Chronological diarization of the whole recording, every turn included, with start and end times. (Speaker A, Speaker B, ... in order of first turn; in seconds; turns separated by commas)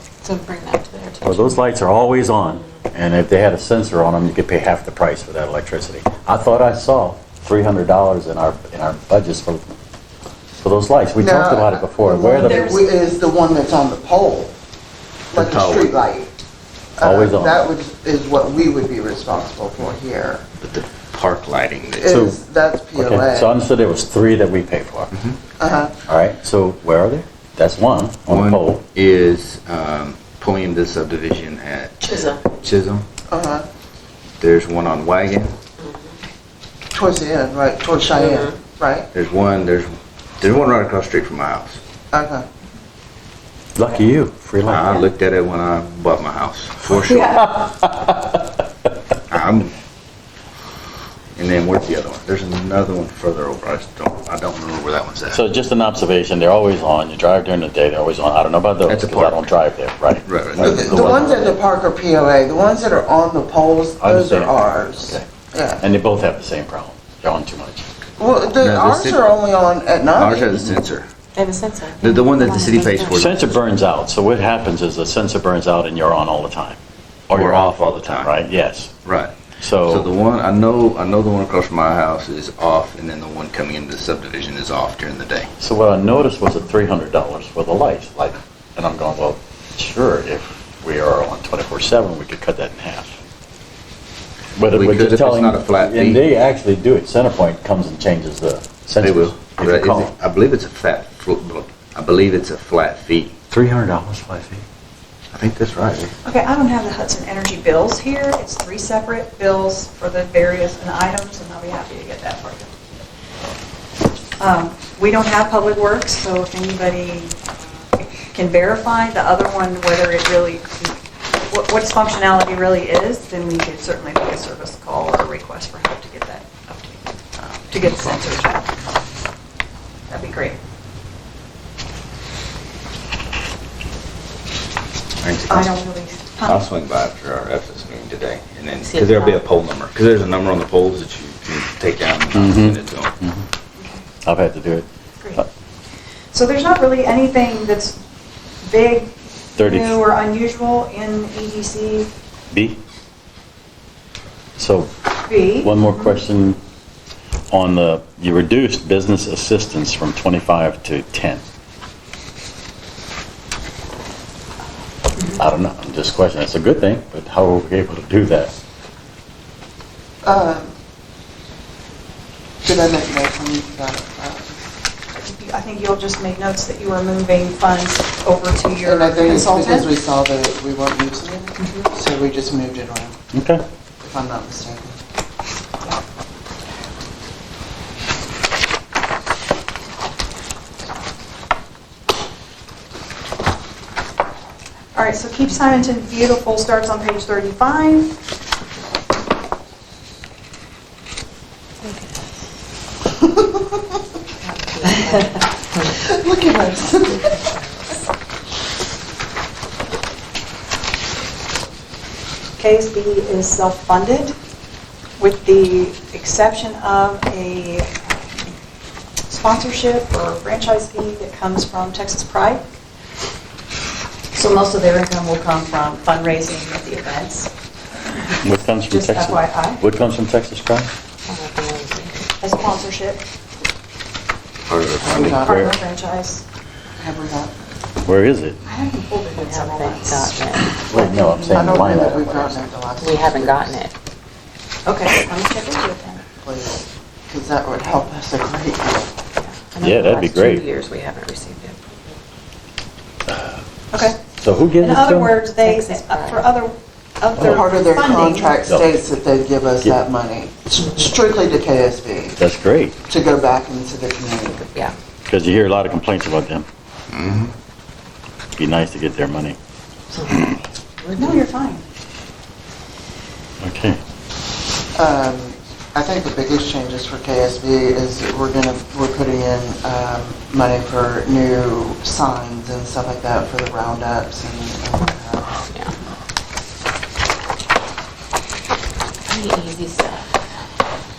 Speaker A: 0.2-1.6, Speaker B: 1.2-9.8, Speaker B: 10.6-12.8, Speaker C: 11.2-14.5, Speaker D: 12.1-12.9, Speaker C: 15.3-16.3, Speaker E: 15.3-16.0, Speaker C: 17.0-20.5, Speaker B: 17.0-17.6, Speaker E: 20.6-22.2, Speaker C: 22.0-23.5, Speaker B: 22.1-22.4, Speaker B: 23.0-25.1, Speaker C: 25.6-26.0, Speaker B: 26.1-28.8, Speaker E: 28.3-33.0, Speaker A: 32.1-32.4, Speaker C: 33.3-33.7, Speaker E: 34.4-35.5, Speaker C: 36.9-39.1, Speaker A: 38.1-38.5, Speaker E: 39.1-41.8, Speaker C: 42.1-42.5, Speaker B: 43.8-45.1, Speaker E: 44.7-47.4, Speaker B: 46.8-48.6, Speaker E: 49.3-49.7, Speaker E: 51.4-55.4, Speaker B: 55.3-61.5, Speaker E: 58.9-59.5, Speaker E: 60.2-61.3, Speaker C: 60.6-65.8, Speaker B: 64.0-65.3, Speaker B: 65.8-67.8, Speaker C: 68.2-70.8, Speaker E: 68.6-69.3, Speaker E: 70.1-71.1, Speaker A: 71.4-73.2, Speaker E: 72.0-73.6, Speaker B: 73.1-78.9, Speaker E: 77.3-78.3, Speaker E: 79.0-85.5, Speaker B: 79.6-80.1, Speaker B: 85.6-93.2, Speaker B: 94.6-100.1, Speaker E: 94.7-96.2, Speaker E: 99.0-103.3, Speaker B: 103.5-104.6, Speaker E: 105.3-106.1, Speaker D: 106.2-112.7, Speaker D: 114.4-117.3, Speaker D: 118.1-121.0, Speaker D: 121.5-127.0, Speaker D: 127.7-128.7, Speaker D: 130.1-130.6, Speaker E: 135.2-135.7, Speaker D: 135.5-136.6, Speaker E: 136.4-143.2, Speaker A: 138.9-139.4, Speaker B: 142.3-143.4, Speaker B: 144.2-144.9, Speaker D: 146.3-148.0, Speaker D: 148.6-152.1, Speaker B: 149.6-150.0, Speaker B: 152.5-152.8, Speaker B: 154.6-154.9, Speaker D: 155.3-156.2, Speaker B: 155.6-156.6, Speaker B: 157.5-161.4, Speaker B: 165.4-168.5, Speaker C: 170.2-170.7, Speaker C: 172.6-174.6, Speaker D: 175.2-180.0, Speaker C: 178.8-183.2, Speaker D: 181.6-181.9, Speaker B: 183.3-183.6, Speaker C: 184.0-185.0, Speaker D: 194.9-198.2, Speaker A: 201.8-202.2, Speaker C: 203.2-203.8, Speaker A: 204.4-205.8, Speaker C: 205.8-207.4, Speaker A: 207.1-207.6, Speaker D: 212.6-214.3, Speaker D: 215.2-218.1, Speaker D: 219.3-222.6, Speaker D: 224.3-227.5, Speaker D: 228.3-229.8, Speaker B: 228.4-230.9, Speaker A: 231.3-232.2, Speaker D: 232.4-233.2, Speaker E: 234.7-235.7, Speaker C: 235.1-235.7, Speaker D: 235.3-236.4, Speaker C: 237.0-237.5, Speaker B: 238.1-238.6, Speaker D: 238.7-242.1, Speaker A: 239.4-240.9, Speaker B: 240.9-242.7, Speaker C: 241.5-243.8, Speaker A: 243.0-243.9, Speaker D: 244.8-246.3, Speaker C: 246.3-249.1, Speaker A: 249.4-252.2, Speaker B: 249.8-250.6, Speaker B: 253.3-253.6, Speaker D: 253.9-254.2, Speaker B: 254.4-255.4, Speaker D: 254.8-258.6, Speaker A: 255.6-256.5, Speaker C: 257.4-262.4, Speaker A: 260.8-261.1, Speaker B: 262.4-263.0, Speaker C: 263.1-264.6, Speaker A: 264.5-264.9, Speaker B: 265.3-266.7, Speaker E: 267.1-267.5, Speaker B: 268.6-269.6, Speaker A: 270.1-271.4, Speaker D: 271.2-271.8, Speaker B: 273.6-274.0, Speaker C: 274.9-285.6, Speaker A: 289.3-290.3